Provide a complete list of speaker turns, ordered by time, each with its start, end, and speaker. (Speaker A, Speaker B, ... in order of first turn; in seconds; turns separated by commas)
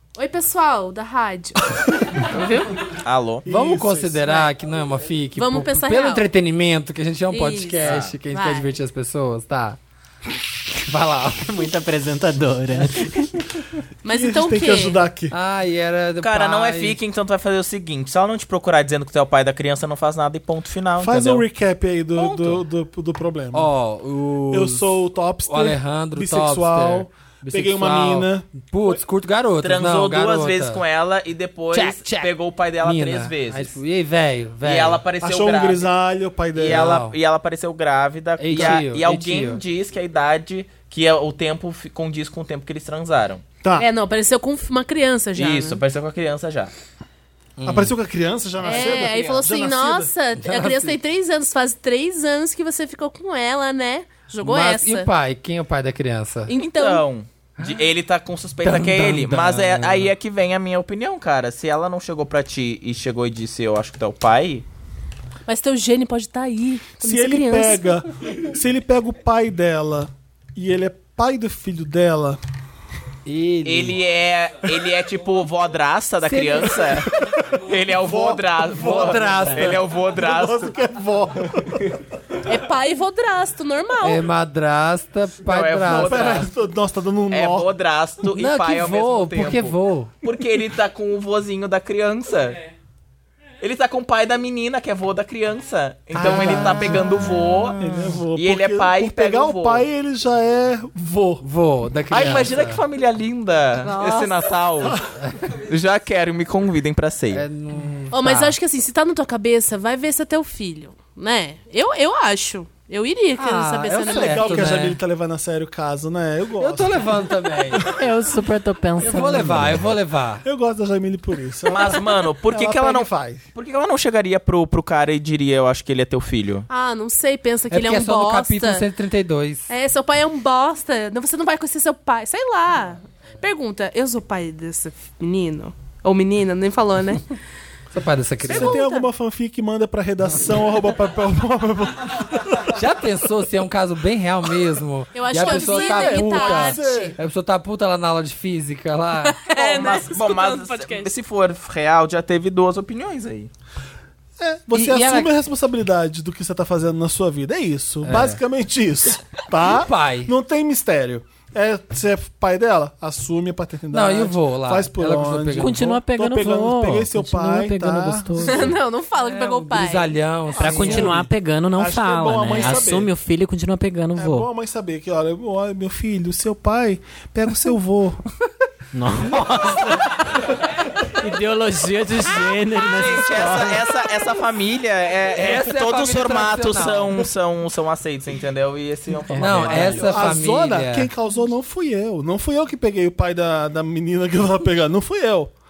Speaker A: 0.2-2.8, Speaker B: 3.0-3.5, Speaker C: 3.5-4.2, Speaker D: 3.5-9.8, Speaker A: 4.2-4.5, Speaker A: 5.3-6.3, Speaker A: 7.3-8.7, Speaker B: 7.8-8.2, Speaker D: 10.7-11.5, Speaker E: 11.4-13.3, Speaker A: 14.0-15.0, Speaker C: 14.1-15.3, Speaker D: 15.3-17.0, Speaker B: 16.2-21.4, Speaker C: 21.0-23.7, Speaker B: 22.2-22.6, Speaker D: 23.5-30.8, Speaker C: 24.5-28.9, Speaker B: 29.6-33.7, Speaker D: 31.7-35.0, Speaker B: 34.6-35.9, Speaker C: 35.2-37.0, Speaker B: 36.5-43.4, Speaker D: 36.7-37.2, Speaker D: 38.4-39.6, Speaker A: 43.8-45.8, Speaker B: 45.4-46.7, Speaker D: 47.6-48.0, Speaker C: 47.6-50.1, Speaker A: 48.6-55.1, Speaker B: 48.6-49.2, Speaker D: 50.4-51.0, Speaker D: 54.4-56.5, Speaker A: 56.5-57.1, Speaker B: 56.6-64.7, Speaker D: 57.6-57.9, Speaker D: 58.6-60.1, Speaker A: 65.5-68.0, Speaker C: 67.0-72.4, Speaker D: 73.3-74.0, Speaker B: 73.7-80.7, Speaker D: 76.2-77.0, Speaker C: 77.2-82.0, Speaker D: 78.7-79.9, Speaker A: 82.4-84.3, Speaker D: 84.0-86.5, Speaker B: 85.5-86.5, Speaker C: 85.9-87.7, Speaker B: 87.3-92.6, Speaker D: 88.3-90.1, Speaker B: 93.6-99.9, Speaker C: 96.1-101.4, Speaker D: 96.2-97.1, Speaker D: 101.4-102.8, Speaker B: 102.1-105.1, Speaker A: 103.8-104.4, Speaker D: 105.2-105.5, Speaker B: 105.7-107.5, Speaker D: 107.3-108.6, Speaker A: 108.1-114.7, Speaker D: 113.4-115.0, Speaker C: 114.0-117.2, Speaker D: 116.6-117.9, Speaker E: 117.9-119.9, Speaker D: 119.0-120.4, Speaker C: 120.4-123.5, Speaker B: 121.7-126.7, Speaker A: 126.7-128.9, Speaker D: 127.7-129.7, Speaker A: 129.7-137.3, Speaker D: 137.9-138.8, Speaker C: 138.4-142.8, Speaker A: 138.5-139.1, Speaker D: 142.7-149.4, Speaker A: 145.1-147.2, Speaker C: 145.4-147.2, Speaker A: 149.2-151.1, Speaker B: 149.5-153.5, Speaker C: 154.4-168.7, Speaker D: 154.7-155.3, Speaker D: 158.0-158.4, Speaker D: 159.7-160.3, Speaker D: 163.9-165.8, Speaker E: 165.6-168.8, Speaker A: 168.4-170.2, Speaker D: 169.2-171.2, Speaker C: 170.5-173.1, Speaker E: 170.6-174.5, Speaker D: 172.5-172.9, Speaker C: 174.2-178.2, Speaker E: 178.9-180.4, Speaker D: 179.3-179.8, Speaker E: 181.2-183.8, Speaker B: 182.9-190.3, Speaker D: 185.3-187.3, Speaker E: 189.3-190.1, Speaker D: 189.4-191.1, Speaker C: 190.1-195.5